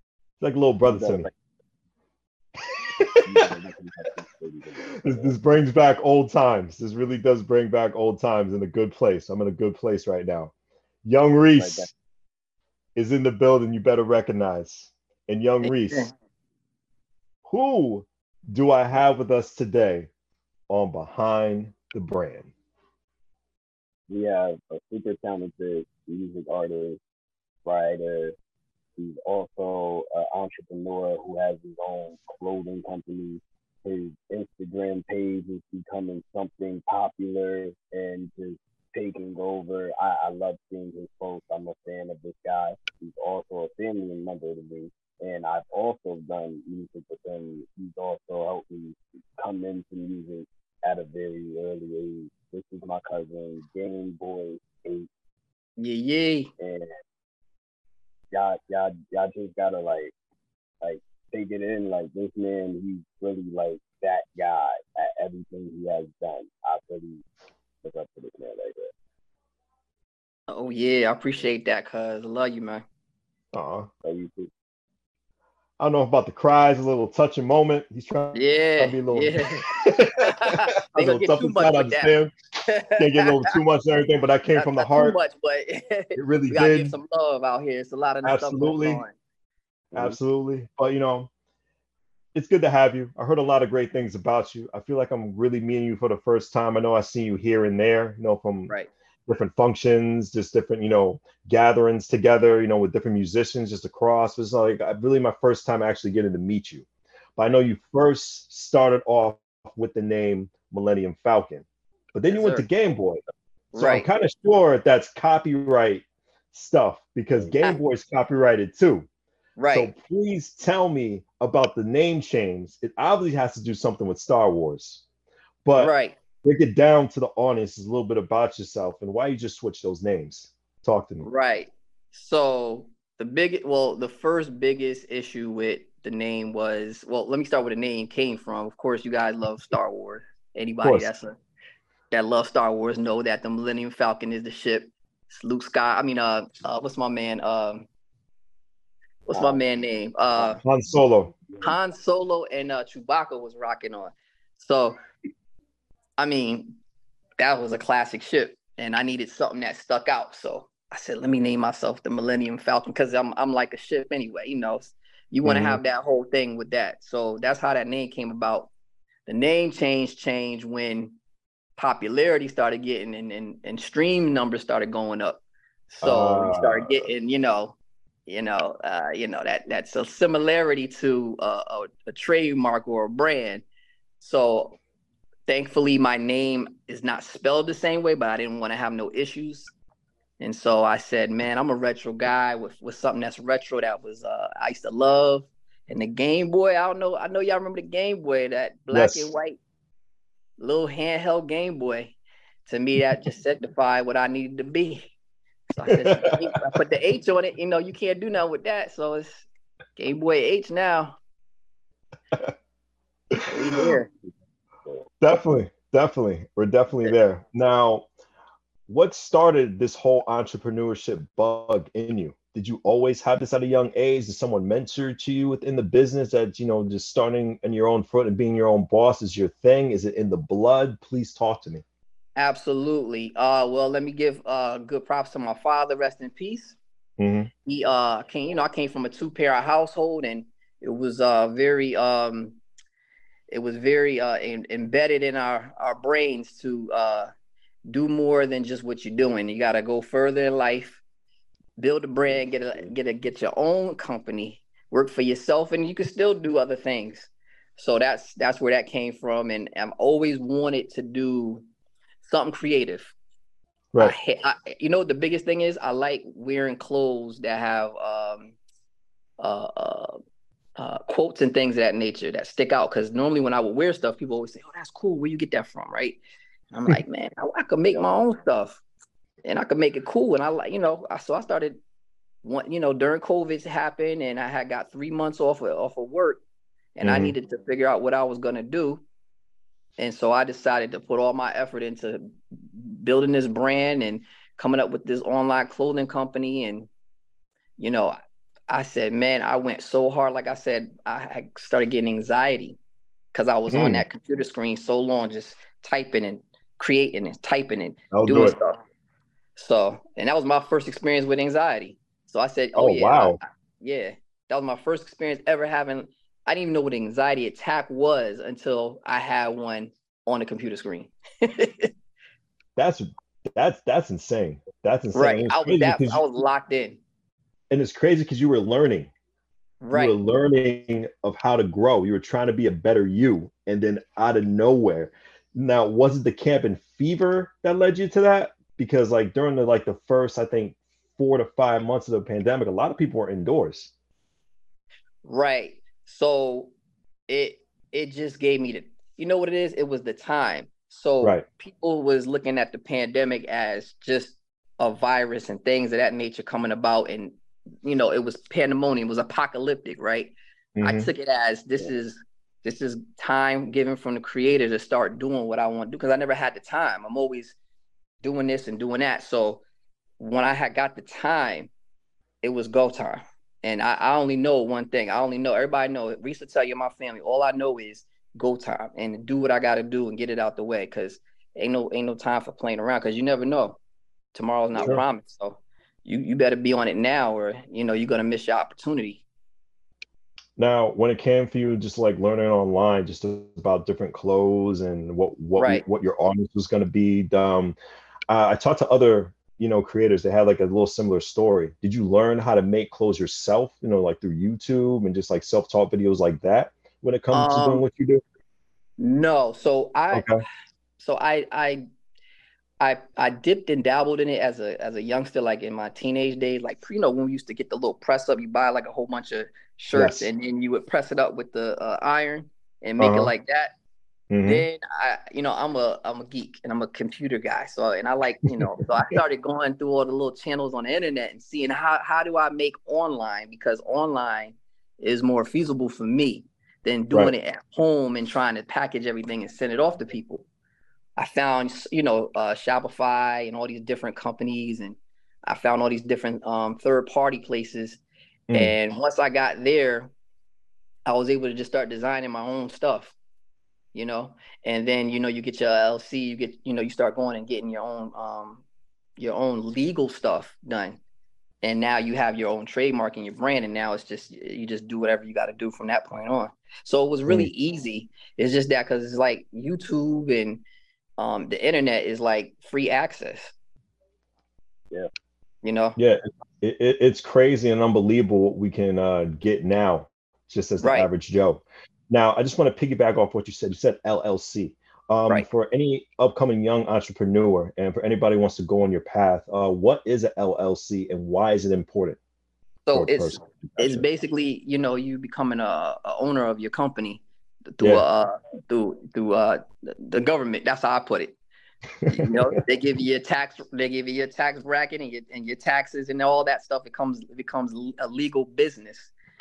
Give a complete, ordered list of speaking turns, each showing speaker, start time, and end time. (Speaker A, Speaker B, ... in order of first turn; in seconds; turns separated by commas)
Speaker A: 0.4-1.3, Speaker B: 0.8-1.3, Speaker A: 2.7-3.5, Speaker B: 3.2-5.3, Speaker A: 5.0-10.5, Speaker A: 11.0-11.9, Speaker B: 11.6-11.9, Speaker A: 13.0-16.1, Speaker C: 15.6-16.1, Speaker A: 17.4-20.1, Speaker A: 20.7-22.5, Speaker B: 24.1-27.0, Speaker B: 27.6-28.4, Speaker B: 29.0-55.1, Speaker C: 55.8-56.5, Speaker B: 56.6-57.0, Speaker B: 58.3-60.1, Speaker B: 60.8-67.2, Speaker B: 67.8-68.9, Speaker C: 70.5-72.8, Speaker A: 73.5-73.9, Speaker B: 74.0-74.5, Speaker A: 75.8-82.3, Speaker C: 78.3-79.7, Speaker C: 80.2-82.1, Speaker C: 82.7-83.6, Speaker A: 83.0-85.2, Speaker C: 84.5-89.1, Speaker A: 86.2-86.9, Speaker A: 88.2-89.0, Speaker A: 89.9-91.3, Speaker A: 92.3-98.7, Speaker A: 99.3-106.9, Speaker A: 107.4-113.2, Speaker C: 112.3-112.7, Speaker A: 113.7-119.1, Speaker C: 113.7-114.1, Speaker C: 119.6-119.9, Speaker A: 119.7-125.0, Speaker A: 125.6-131.3, Speaker C: 125.8-126.2, Speaker C: 131.2-141.3, Speaker A: 140.8-141.1, Speaker C: 142.1-147.9, Speaker C: 149.3-150.6, Speaker B: 149.3-149.6, Speaker A: 150.6-151.3, Speaker C: 151.6-155.0, Speaker C: 156.2-156.8, Speaker C: 157.4-168.7, Speaker A: 165.4-165.8, Speaker C: 169.3-171.2, Speaker C: 171.8-183.6, Speaker A: 176.0-177.1, Speaker C: 184.2-184.8, Speaker C: 185.5-189.7, Speaker C: 190.4-199.6, Speaker A: 198.9-199.3, Speaker C: 200.6-205.1, Speaker C: 205.7-209.4, Speaker A: 205.9-206.3, Speaker C: 210.0-211.2, Speaker A: 213.3-213.9, Speaker C: 213.5-214.1, Speaker A: 215.2-218.1, Speaker A: 218.9-231.8, Speaker C: 232.4-236.8, Speaker A: 237.2-237.5, Speaker C: 237.7-242.6, Speaker C: 243.5-247.3, Speaker C: 247.9-251.0, Speaker C: 251.8-261.6, Speaker B: 252.3-252.9, Speaker C: 262.2-263.1, Speaker C: 264.0-268.6, Speaker C: 269.4-270.2, Speaker C: 270.8-276.2, Speaker C: 276.7-278.8, Speaker C: 279.4-281.8, Speaker C: 282.4-286.4, Speaker C: 287.0-289.0, Speaker A: 287.0-287.4, Speaker C: 290.0-296.9, Speaker C: 297.8-298.2, Speaker C: 298.7-302.8, Speaker C: 303.3-308.8, Speaker A: 303.7-304.0, Speaker A: 308.1-308.6, Speaker C: 309.6-321.9, Speaker A: 312.8-313.4, Speaker A: 322.8-326.2, Speaker C: 325.1-327.0, Speaker A: 327.7-329.1, Speaker C: 329.8-330.1, Speaker A: 329.9-343.9, Speaker C: 345.2-346.7, Speaker C: 347.3-367.6, Speaker A: 360.8-361.1, Speaker C: 368.2-369.6, Speaker C: 370.2-371.7, Speaker C: 372.4-383.8, Speaker C: 384.3-389.2, Speaker A: 384.8-385.0, Speaker A: 390.6-397.8, Speaker C: 395.6-395.8, Speaker A: 398.3-408.2, Speaker C: 407.3-407.8, Speaker C: 409.0-410.3, Speaker A: 410.1-410.4, Speaker C: 411.0-411.9, Speaker C: 412.8-423.7, Speaker A: 419.9-420.3, Speaker A: 423.0-423.3, Speaker A: 424.3-424.7, Speaker C: 424.4-440.5, Speaker A: 428.5-429.2, Speaker C: 441.2-448.0, Speaker A: 448.5-448.8, Speaker C: 448.5-450.1, Speaker C: 451.1-453.1, Speaker C: 453.9-458.6, Speaker C: 459.2-461.0, Speaker C: 461.6-470.6, Speaker C: 471.2-473.5, Speaker C: 475.6-476.0, Speaker A: 476.0-492.2, Speaker C: 480.8-481.1, Speaker C: 492.9-501.4, Speaker A: 492.9-494.1, Speaker A: 497.8-498.1, Speaker A: 502.0-502.5, Speaker C: 502.1-509.1